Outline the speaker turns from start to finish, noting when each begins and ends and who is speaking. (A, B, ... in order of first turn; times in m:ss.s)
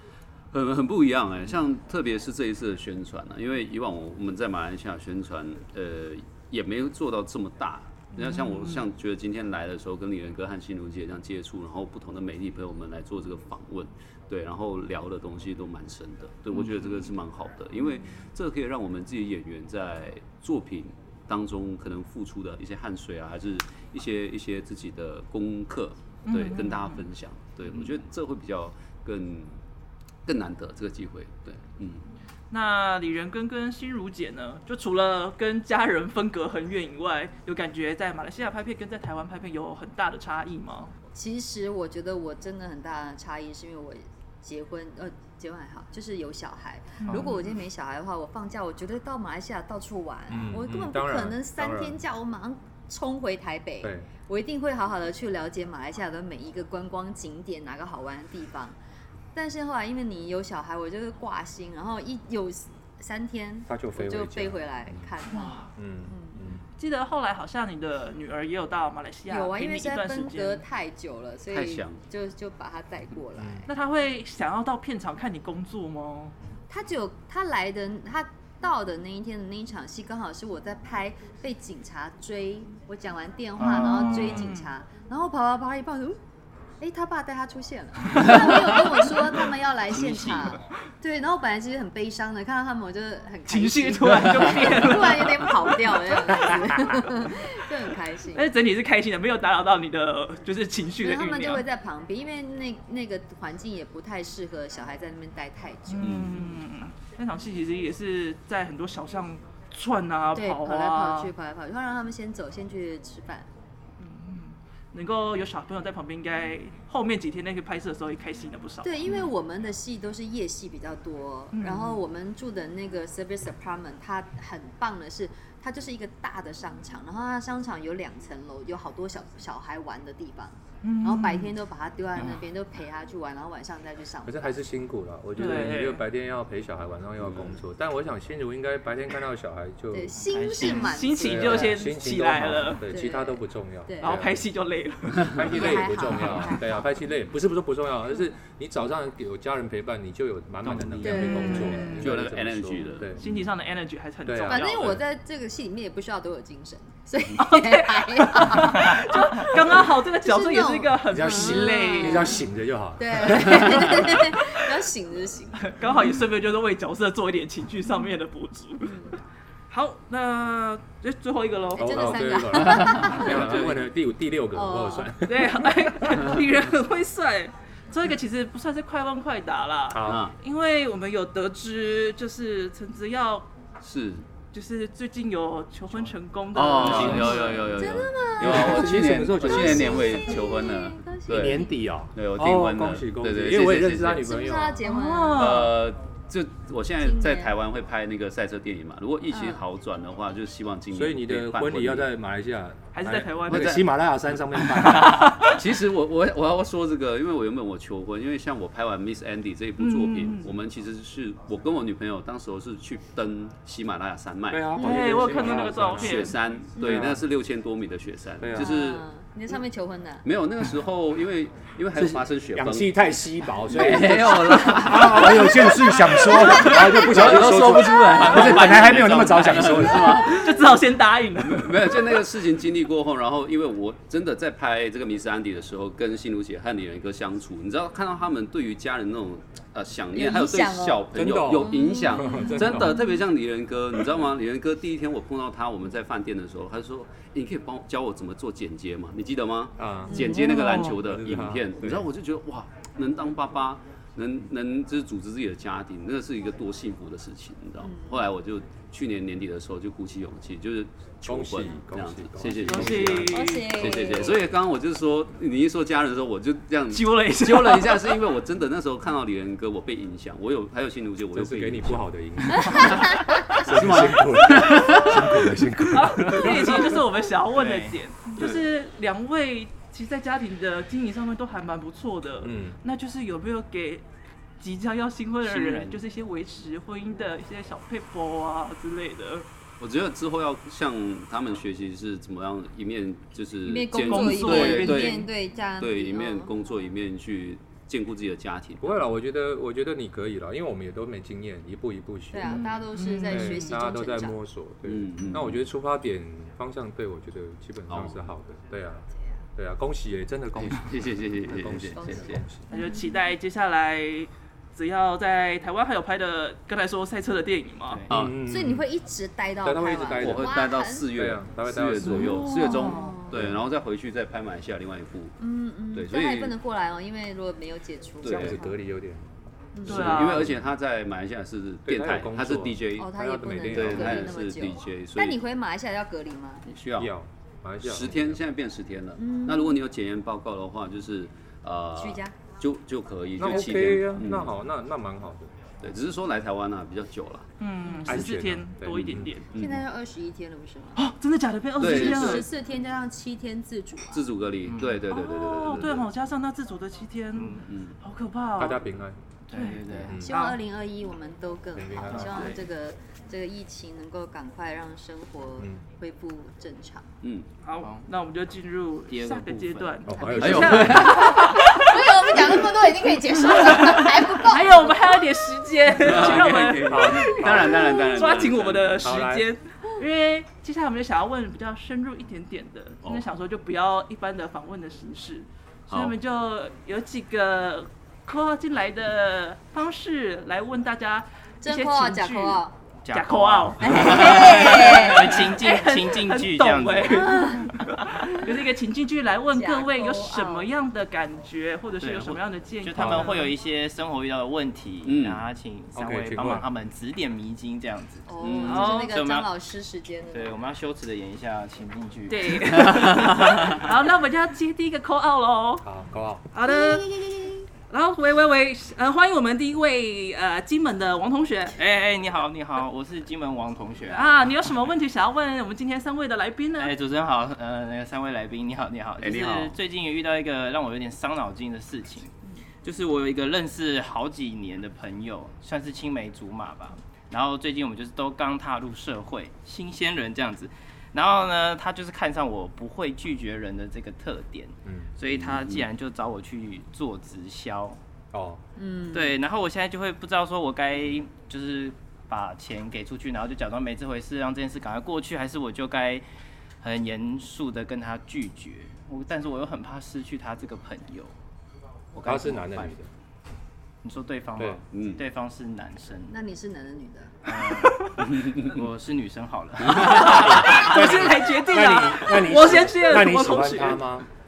0:00.5-0:29.6 A
0:08.2-0:08.8 B
0:26.2-0:27.0 B
0:30.2-0:32.0 A
0:32.5-0:40.9 B
0:41.1-0:58.8 C
0:47.0-0:47.5 B
0:50.3-0:52.0 D
0:53.8-0:54.1 D
0:59.3-1:06.4 C
1:03.7-1:05.1 D
1:05.3-1:05.7 B
1:05.8-1:06.6 D
1:06.8-1:10.6 B
1:09.3-1:13.7 C
1:11.5-1:12.0 A
1:13.4-1:13.6 D
1:13.7-1:16.3 B
1:16.7-1:26.2 C
1:23.6-1:24.4 E
1:23.6-1:24.7 B
1:26.8-1:38.5 C
1:29.9-1:30.6 E
1:33.5-1:37.0 B
1:38.3-1:41.6 B
1:41.0-1:46.6 C
1:45.9-1:51.3 B
1:46.0-1:46.4 A
1:50.4-1:53.5 C
1:54.0-1:59.3 B
1:58.8-2:14.6 C
2:01.5-2:02.0 B
2:10.8-2:11.5 B
2:12.2-2:12.4 E
2:14.2-2:20.1 D
2:15.4-2:16.0 B
2:17.2-2:17.5 A
2:19.9-2:21.8 C
2:20.2-2:21.0 E
2:20.6-2:22.8 B
2:21.2-2:24.4 D
2:22.9-2:24.2 C
2:24.0-2:25.3 B
2:25.1-2:25.6 A
2:25.3-2:33.3 D
2:25.4-2:26.8 C
2:30.6-2:31.6 E
2:31.0-2:32.0 C
2:31.1-2:32.0 B
2:32.0-2:33.1 A
2:33.2-2:35.0 B
2:34.2-2:35.0 D
2:34.4-2:42.4 C
2:37.4-2:42.4 B
2:41.1-2:44.4 D
2:43.0-2:45.9 C
2:45.6-2:49.1 B
2:48.8-2:49.2 C
2:49.7-2:52.4 B
2:51.7-2:53.6 C
2:51.8-2:56.3 D
2:52.6-2:53.7 A
2:54.5-2:55.1 C
2:55.2-3:03.5 B
2:59.9-3:00.3 D
3:00.0-3:00.3 A
3:03.8-3:04.2 A
3:04.5-3:07.6 B
3:06.5-3:14.3 A
3:06.8-3:07.6 D
3:07.7-3:11.8 C
3:08.4-3:10.4 D
3:11.3-3:14.8 D
3:14.2-3:15.7 C
3:14.8-3:15.7 B
3:15.3-3:22.1 A
3:17.0-3:17.5 C
3:19.3-3:19.6 C
3:20.9-3:25.4 D
3:22.9-3:23.8 B
3:23.5-3:23.9 A
3:24.8-3:25.6 B
3:25.4-3:34.7 A
3:29.8-3:30.5 B
3:34.5-3:37.2 D
3:34.8-3:36.3 B
3:34.8-3:35.2 C
3:35.7-3:39.0 A
3:36.8-3:37.0 C
3:38.4-3:38.7 D
3:38.5-3:40.2 C
3:40.2-3:43.0 A
3:41.9-3:50.4 D
3:43.6-3:50.6 A
3:46.3-3:47.1 C
3:50.2-3:51.8 B
3:51.4-4:35.6 A
4:00.1-4:03.2 C
4:01.1-4:03.0 D
4:09.8-4:12.1 D
4:10.1-4:10.6 C
4:10.4-4:10.9 B
4:17.8-4:18.2 C
4:21.2-4:23.5 D
4:22.6-4:23.9 B
4:23.3-4:24.4 C
4:26.9-4:28.0 B
4:31.3-4:37.0 D
4:32.7-4:33.6 C
4:35.9-4:44.0 B
4:37.5-4:38.0 E
4:42.4-4:42.8 D
4:44.6-4:49.4 B
4:45.4-4:46.0 E
4:49.8-4:59.0 A
4:53.6-4:56.5 C
4:54.0-4:55.3 B
4:58.8-5:02.7 D
5:02.3-5:04.4 C
5:02.4-5:03.7 B
5:03.2-5:12.7 D
5:04.8-5:05.6 A
5:07.9-5:08.2 A
5:10.6-5:12.4 A
5:12.0-5:13.0 C
5:12.7-5:18.0 B
5:17.9-5:18.3 E
5:18.1-5:18.4 A
5:18.1-5:18.8 D
5:18.4-5:21.1 C
5:19.6-5:20.6 D
5:20.2-5:25.4 A
5:21.1-5:22.4 D
5:22.0-5:23.2 B
5:22.3-5:23.4 C
5:23.3-5:23.6 D
5:25.4-5:28.7 C
5:25.9-5:26.6 A
5:28.2-5:28.7 A
5:28.2-5:30.7 D
5:29.8-5:30.2 C
5:29.8-5:33.1 A
5:29.9-5:30.4 B
5:31.8-5:34.4 D
5:33.0-5:36.6 C
5:33.6-5:35.4 A
5:36.6-5:37.1 A
5:37.0-5:38.4 D
5:37.8-5:44.5 A
5:39.2-5:39.8 C
5:42.0-5:42.3 C
5:43.4-5:45.6 D
5:45.8-5:47.5 A
5:47.6-5:49.5 B
5:47.9-5:48.2 C
5:48.0-5:49.3 D
5:49.5-5:49.8 A
5:49.5-5:51.0 C
5:51.0-5:52.5 B
5:51.8-5:52.5 A
5:51.8-5:54.3 C
5:54.1-5:56.0 A
5:54.6-5:55.1 E
5:55.1-5:58.8 B
5:57.3-5:57.7 E
5:57.7-5:57.9 A
5:58.6-5:59.2 D
5:59.5-6:00.2 E
5:59.5-6:00.6 B
6:00.0-6:00.3 D
6:00.1-6:07.0 C
6:01.7-6:02.6 D
6:02.1-6:02.6 E
6:07.6-6:43.5 B
6:07.8-6:08.0 E
6:09.1-6:10.1 E
6:10.0-6:11.3 D
6:10.1-6:15.1 C
6:10.4-6:11.4 A
6:16.0-6:19.1 A
6:16.8-6:17.8 D
6:17.6-6:18.2 C
6:19.0-6:19.4 D
6:25.9-6:26.1 A
6:31.6-6:32.8 C
6:33.0-6:37.5 E
6:33.8-6:35.4 C
6:37.3-6:37.6 C
6:39.5-6:40.7 C
6:42.0-6:49.5 E
6:45.0-6:45.4 A
6:45.9-6:46.6 D
6:48.3-6:50.6 C
6:48.4-6:48.9 A
6:48.6-6:49.2 B
6:50.3-6:53.9 E
6:52.3-6:55.8 B
6:55.8-6:56.5 D
6:56.5-7:01.8 B
6:56.6-6:57.6 C
7:01.7-7:04.4 E
7:04.1-7:06.9 B
7:06.8-7:28.0 E
7:09.2-7:09.8 A
7:25.3-7:25.8 A
7:28.3-7:28.6 D
7:28.8-7:29.4 C
7:29.1-7:36.2 E
7:36.8-7:41.3 E
7:42.1-7:42.9 E
7:42.2-7:43.1 D
7:44.0-7:46.4 E
7:44.9-7:45.2 A
7:46.3-7:47.5 C
7:47.4-7:51.3 E
7:47.8-7:48.2 B
7:48.3-7:48.7 A
7:49.9-7:54.0 B
7:50.4-7:54.2 D